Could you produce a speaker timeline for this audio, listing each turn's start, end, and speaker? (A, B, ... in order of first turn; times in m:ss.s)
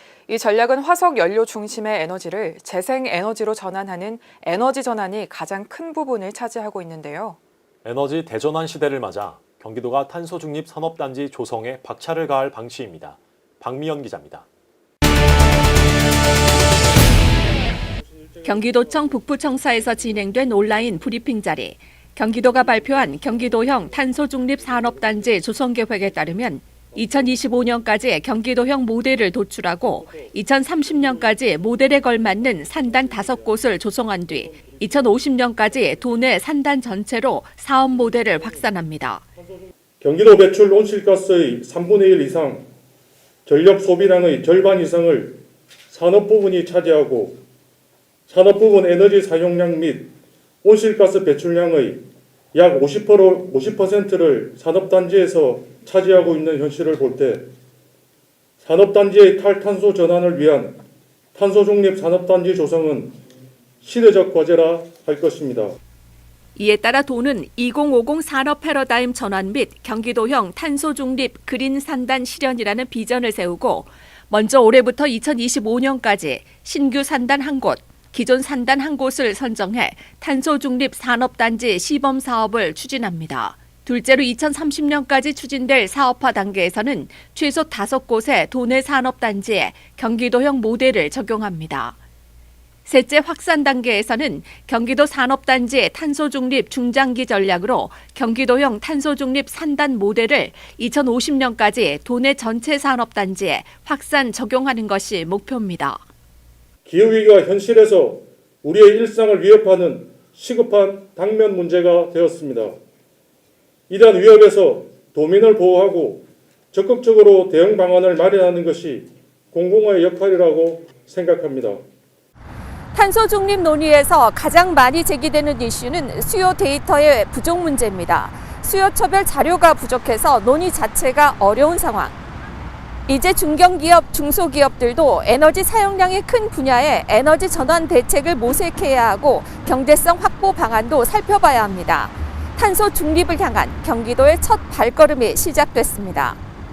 0:00.3-0:07.4 A
0:07.8-0:14.5 B
0:17.7-0:21.3 C
0:18.4-0:39.2 D
0:22.3-0:26.3 C
0:26.9-0:27.9 C
0:30.0-0:36.2 C
0:37.9-0:38.6 C
0:40.0-0:42.6 C
0:43.4-0:47.4 C
0:48.3-0:50.1 C
0:50.6-0:52.0 C
0:52.5-0:57.5 C
0:58.6-1:00.8 C
1:01.3-1:03.2 C
1:03.8-1:05.8 C
1:06.6-1:32.0 D
1:32.8-1:46.0 D
1:46.8-1:52.8 C
1:53.9-2:01.8 C
2:02.9-2:12.2 D
2:13.1-2:26.4 D